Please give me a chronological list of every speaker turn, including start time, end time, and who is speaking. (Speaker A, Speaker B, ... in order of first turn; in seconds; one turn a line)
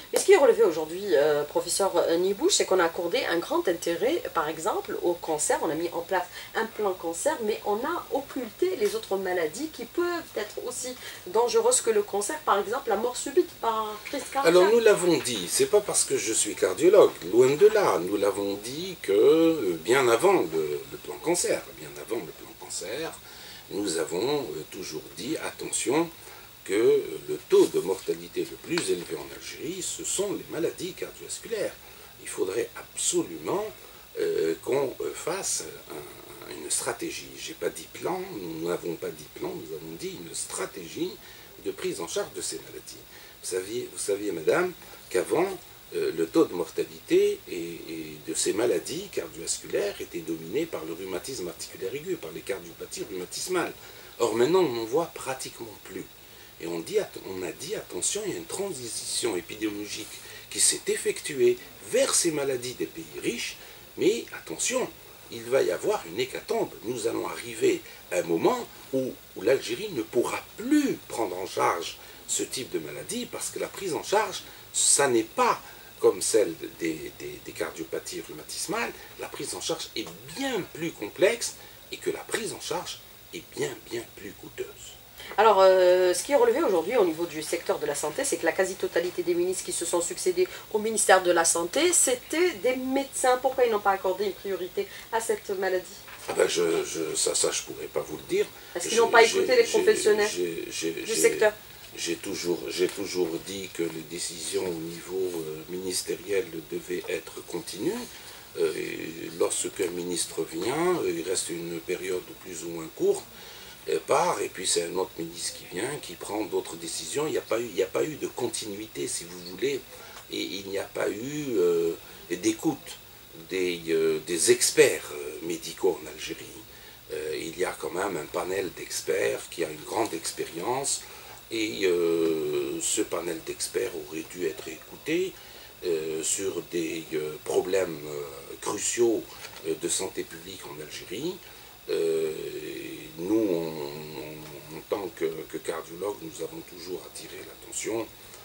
Speaker A: 0.1-14.7
Speaker B: 14.4-26.1
Speaker B: 26.6-85.0
Speaker A: 85.4-96.0
Speaker B: 96.3-113.2
Speaker A: 98.7-100.3
Speaker A: 101.0-101.5
Speaker B: 113.8-148.1